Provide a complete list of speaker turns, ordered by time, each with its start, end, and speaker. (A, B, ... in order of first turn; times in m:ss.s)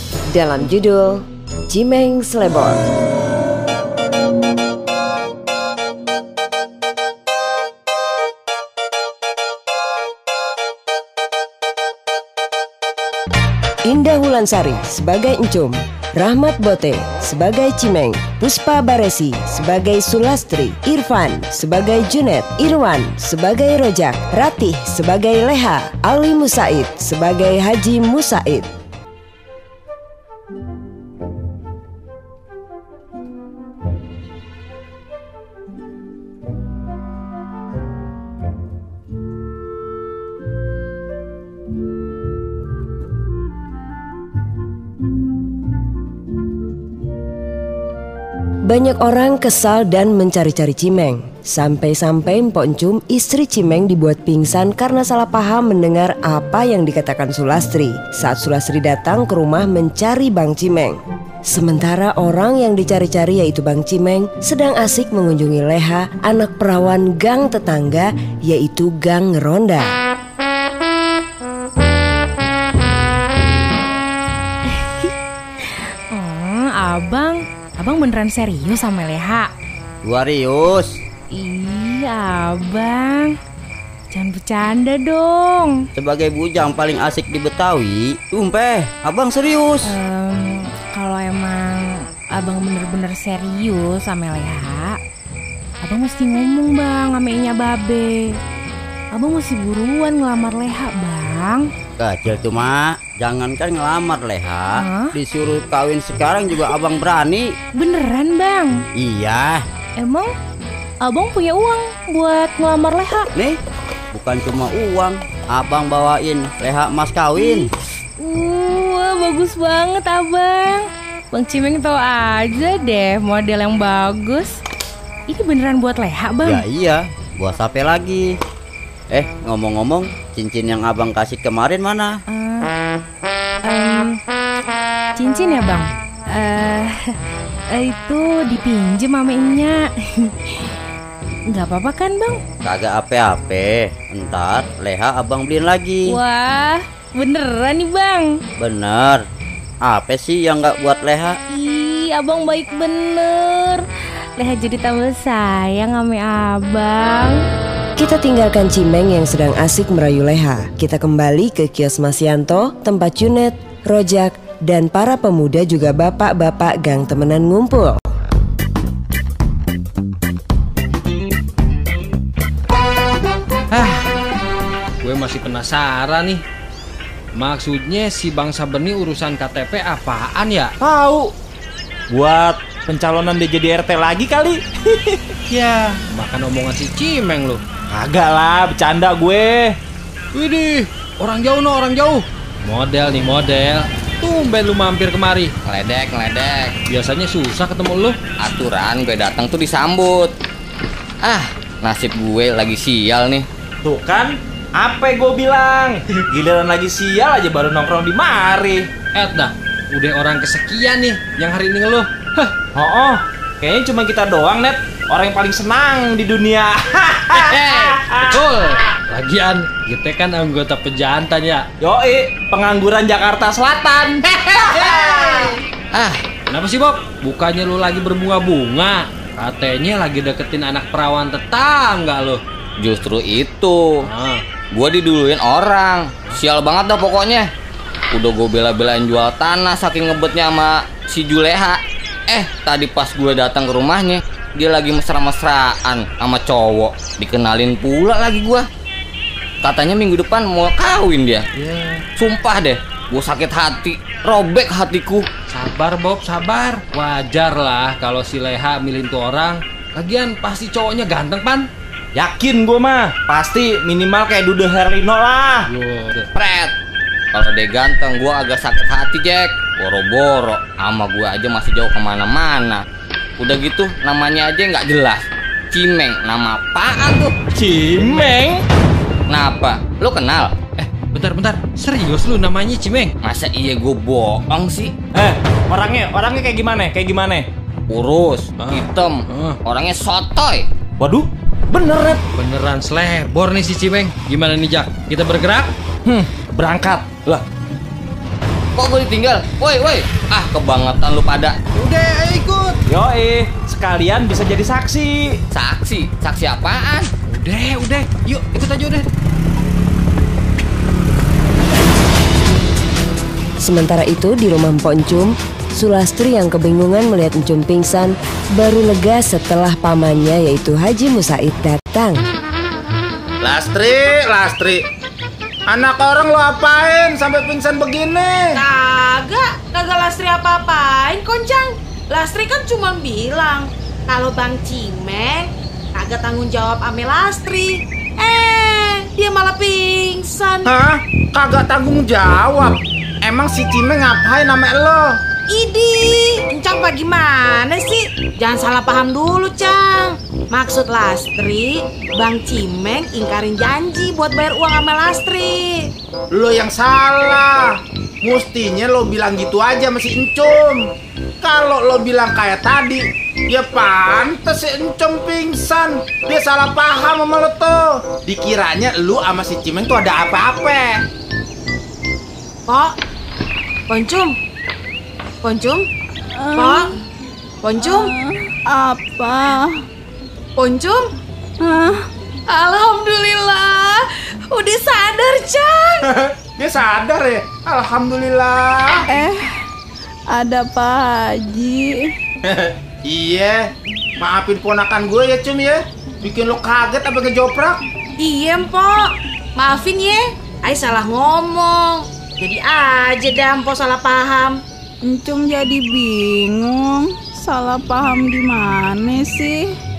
0:00.3-0:02.8 A
0:13.8-0:28.7 A
0:48.7-1:09.9 A
1:14.7-1:15.1 B
1:15.6-1:19.5 B
1:20.0-1:21.0 C
1:21.3-1:23.4 B
1:24.1-1:25.9 B
1:25.9-1:30.0 C
1:29.8-1:35.0 B
1:35.8-1:38.3 B
1:39.1-1:41.7 B
1:42.0-1:47.5 C
1:44.8-1:45.1 B
1:47.8-1:48.8 B
1:49.0-1:49.6 C
1:50.0-1:50.3 B
1:51.0-1:53.3 B
1:54.1-1:57.7 C
1:57.4-1:57.7 B
1:58.2-2:04.6 B
2:05.3-2:06.6 B
2:06.4-2:08.3 C
2:09.1-2:12.2 C
2:12.3-2:12.7 B
2:13.6-2:14.2 B
2:15.2-2:17.1 B
2:17.7-2:20.6 B
2:21.5-2:22.4 B
2:22.6-2:26.2 C
2:26.1-2:28.3 B
2:28.6-2:29.2 C
2:29.8-2:31.4 C
2:31.5-2:33.8 B
2:34.4-2:37.4 B
2:38.0-2:48.0 A
2:53.7-2:54.0 D
2:55.0-2:56.4 D
2:57.3-3:00.7 D
3:00.8-3:01.3 E
3:02.1-3:05.2 E
3:05.5-3:07.6 D
3:07.9-3:09.8 E
3:10.3-3:15.5 D
3:15.6-3:16.7 F
3:16.9-3:18.2 D
3:18.4-3:20.3 F
3:21.2-3:23.5 F
3:23.8-3:28.9 E
3:29.1-3:32.5 D
3:32.7-3:38.4 E
3:37.4-3:41.6 D
3:41.8-3:45.6 E
3:45.9-3:46.2 F
3:46.5-3:52.4 D
3:52.8-3:53.8 F
3:54.0-3:54.4 D
3:54.7-3:57.5 F
3:58.1-4:08.6 F
4:09.6-4:11.4 F
4:11.6-4:12.0 D
4:12.2-4:15.2 F
4:15.5-4:21.7 D
4:22.1-4:25.7 E
4:25.7-4:26.3 D
4:26.3-4:26.7 F
4:27.3-4:32.8 F
4:33.4-4:37.4 F
4:37.5-4:38.6 E
4:38.1-4:38.3 D
4:39.3-4:40.6 F
4:40.8-4:43.1 D
4:43.2-4:44.9 F
4:45.1-4:47.5 E
4:47.9-4:50.7 F
4:48.6-4:49.6 D
4:51.0-4:52.2 E
4:52.3-4:55.7 D
4:56.0-4:57.4 E
4:58.8-5:01.6 F
5:01.7-5:02.8 D
5:02.9-5:05.4 E
5:05.5-5:07.1 F
5:07.3-5:09.1 D
5:13.6-5:22.2 A
5:23.4-5:24.8 G
5:25.7-5:28.6 G
5:28.5-5:40.8 H
5:40.6-5:45.2 G
5:45.5-5:55.9 H
5:56.3-6:00.9 G
6:01.4-6:11.0 G
6:12.6-6:12.9 H
6:13.9-6:14.4 H
6:15.4-6:15.9 H
6:16.4-6:16.8 I
6:16.6-6:16.9 H
6:17.6-6:18.1 H
6:17.8-6:19.8 I
6:20.6-6:21.1 H
6:21.6-6:22.0 I
6:22.5-6:26.0 H
6:26.2-6:29.0 G
6:29.1-6:29.4 I
6:30.3-6:32.1 I
6:32.4-6:33.6 G
6:34.2-6:37.8 G
6:38.2-6:44.6 H
6:45.0-6:49.7 I